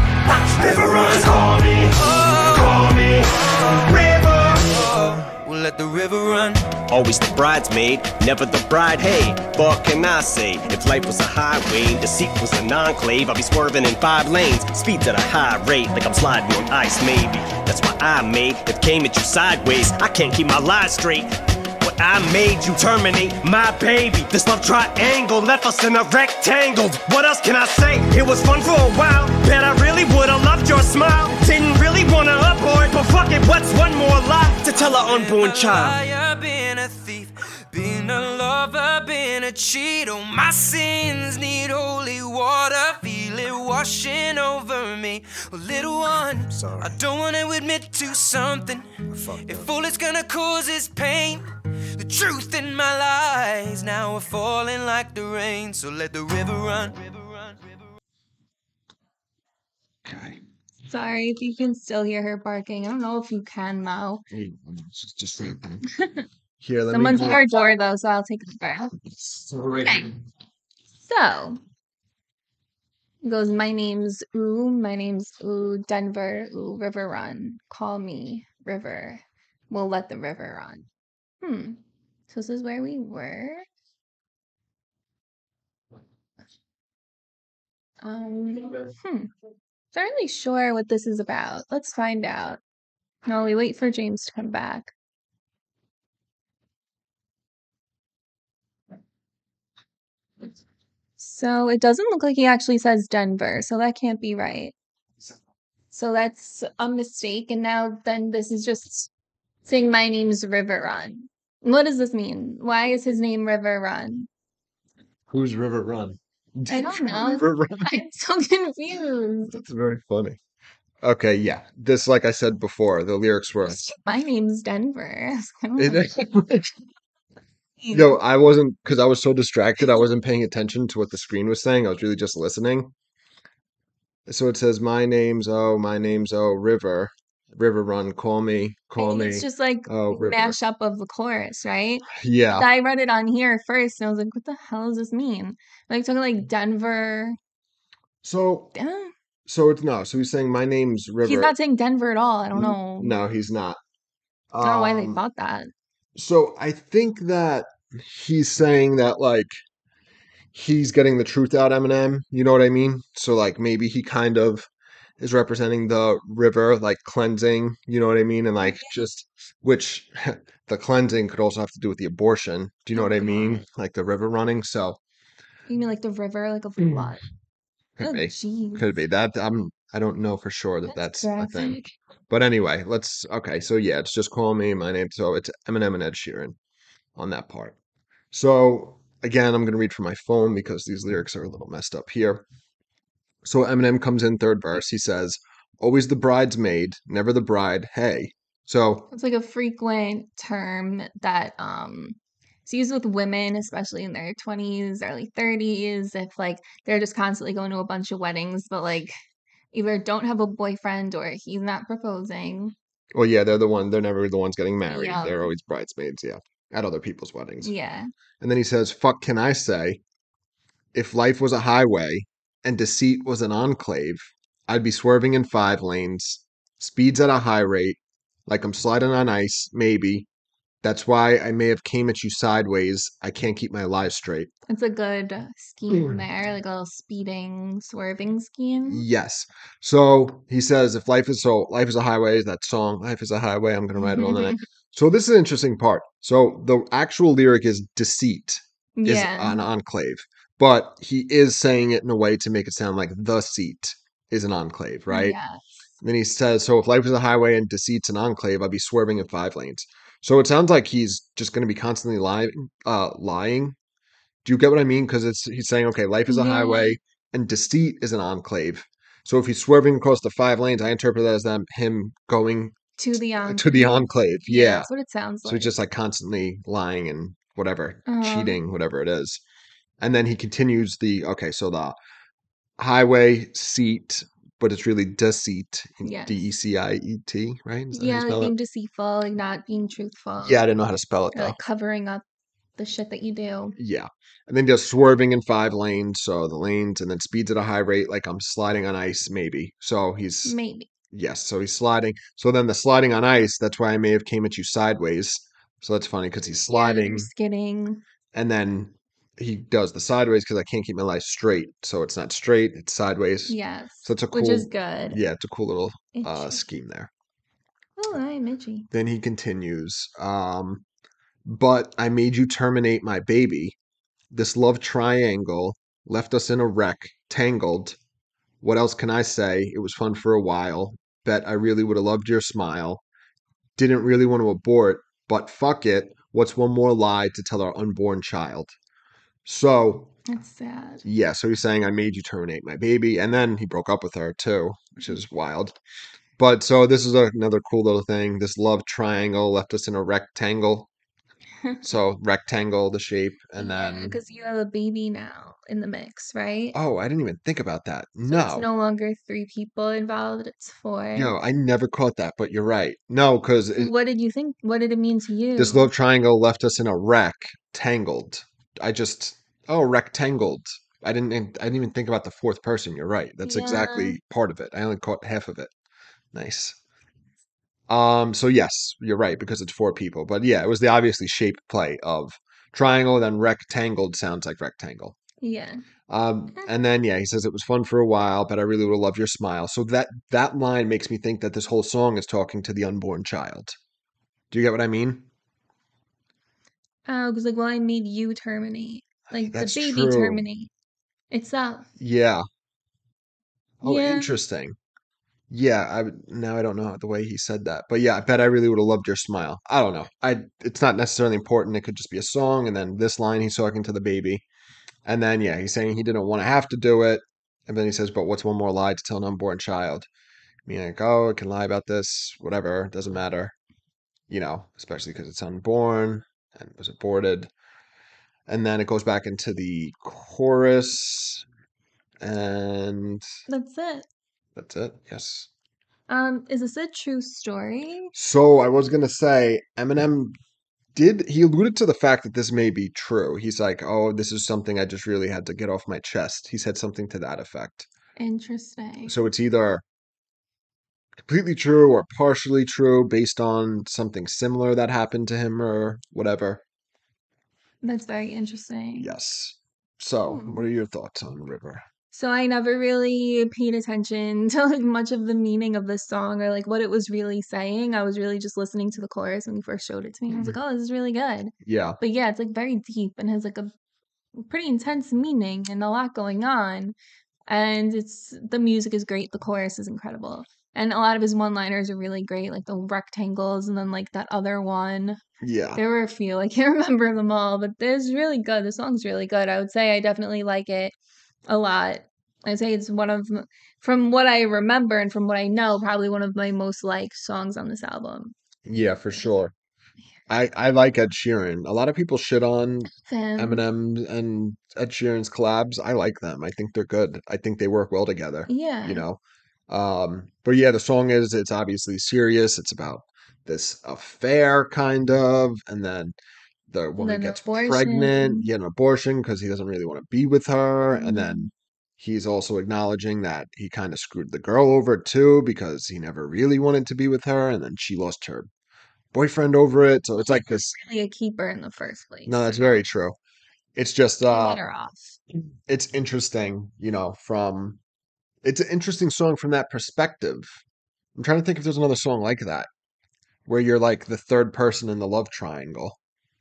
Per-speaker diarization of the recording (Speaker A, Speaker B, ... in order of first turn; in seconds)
Speaker A: 0.2-4.9, 6.9-36.0
Speaker B: 1.9-2.8, 4.7-6.8, 34.7-51.5, 52.0-57.8
Speaker C: 60.0-60.4, 64.3-65.8, 66.6-67.4, 69.2-70.2, 115.3-118.0, 119.5-120.4, 121.0-123.8, 125.8-126.7, 127.9-132.9, 134.3-140.6, 142.1-142.7, 148.2-148.7, 149.5-151.5, 152.5-153.8, 154.5-155.2, 156.2-159.5, 160.5-175.0, 178.0-186.6, 187.2-187.8, 188.3-192.5, 193.4-199.1, 213.1-217.7, 218.4-220.0, 220.9-230.3, 230.8-234.5, 238.9-255.4, 256.0-263.8, 264.4-272.8, 273.4-274.9, 275.4-279.4, 280.0-282.0, 282.8-288.5, 290.4-291.6, 293.8-300.6, 301.1-307.3, 308.3-317.1, 318.9-320.9, 321.4-323.8, 324.3-328.0, 328.6-333.0, 333.8-338.8, 339.5-340.1, 341.0-345.8, 346.4-350.9, 351.8-354.2, 356.7-358.7, 361.2-363.9, 365.6-375.7, 376.3-376.8, 377.9-385.2, 386.1-393.8, 394.5-395.3, 399.5-400.4, 402.0-402.4, 403.8-404.8, 405.5-414.4, 415.1-420.1, 420.7-423.6, 424.3-427.5, 428.5-431.4, 432.2-433.3, 434.6-435.5, 438.1-440.4, 440.9-447.9, 449.1-449.8, 451.2-456.6, 459.0-461.8, 471.6-472.0, 485.4-485.8, 498.7-499.5, 500.3-516.2, 516.7-528.5, 529.1-530.8, 532.3-533.2, 533.8-534.6, 535.7-537.8, 538.4-540.6, 541.2-542.7, 543.5-546.0
Speaker D: 60.9-64.2, 66.0-66.3, 66.9-69.0, 69.8-70.1, 71.1-71.6, 73.2-80.9, 81.4-83.7, 88.0-89.3, 89.9-92.6, 93.3-94.9, 101.2-104.8, 105.9-109.1, 109.7-114.3, 116.7-119.6, 123.7-126.0, 127.8-128.2, 139.0-147.4, 148.8-149.1, 151.2-153.2, 154.6-155.7, 168.6-168.9, 172.9-173.7, 175.7-177.3, 178.0-178.9, 180.9-181.8, 199.1-209.1, 209.7-212.8, 214.9-215.5, 217.6-218.1, 234.7-239.1, 244.0-244.6, 249.0-249.6, 255.1-255.6, 266.3-267.0, 273.0-275.7, 278.1-278.6, 286.0-286.5, 287.9-290.6, 291.3-292.2, 292.8-293.8, 300.4-300.9, 306.7-308.0, 313.5-315.2, 316.1-316.6, 318.0-318.9, 340.3-341.0, 353.6-356.8, 358.3-361.3, 363.8-365.9, 373.4-374.2, 385.4-385.8, 397.1-400.7, 401.3-401.9, 403.8-404.3, 433.5-434.1, 436.1-438.1, 448.2-449.2, 457.8-459.1, 460.3-460.6, 462.1-473.7, 474.4-477.0, 477.5-485.2, 485.8-490.9, 491.5-498.4, 503.0-503.6, 508.5-509.0, 517.0-518.5, 520.9-521.5, 530.7-532.6, 534.3-535.2